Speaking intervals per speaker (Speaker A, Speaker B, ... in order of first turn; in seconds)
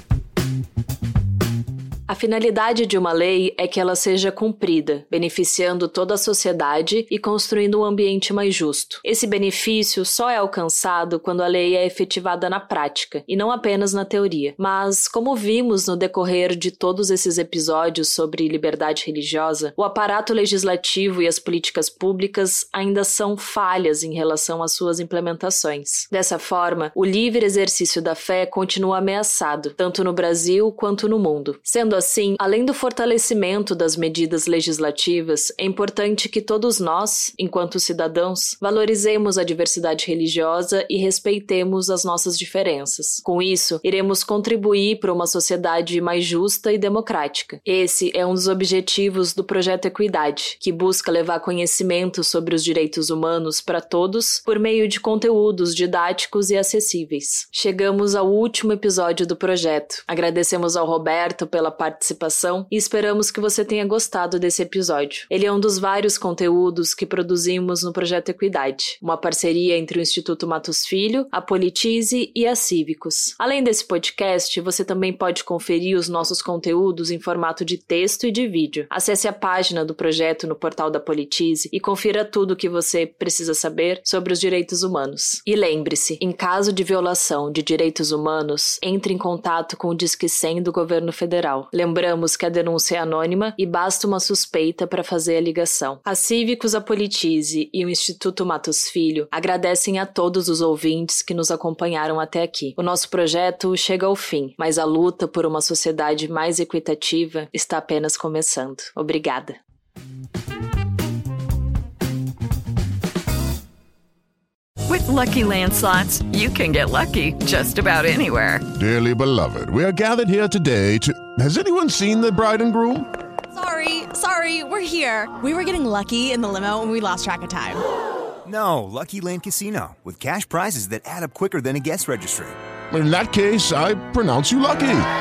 Speaker A: 2.1-109.6
Speaker B: 114.9-118.7
Speaker C: 118.8-123.1, 132.9-135.1
Speaker D: 123.5-127.8
Speaker E: 128.4-132.5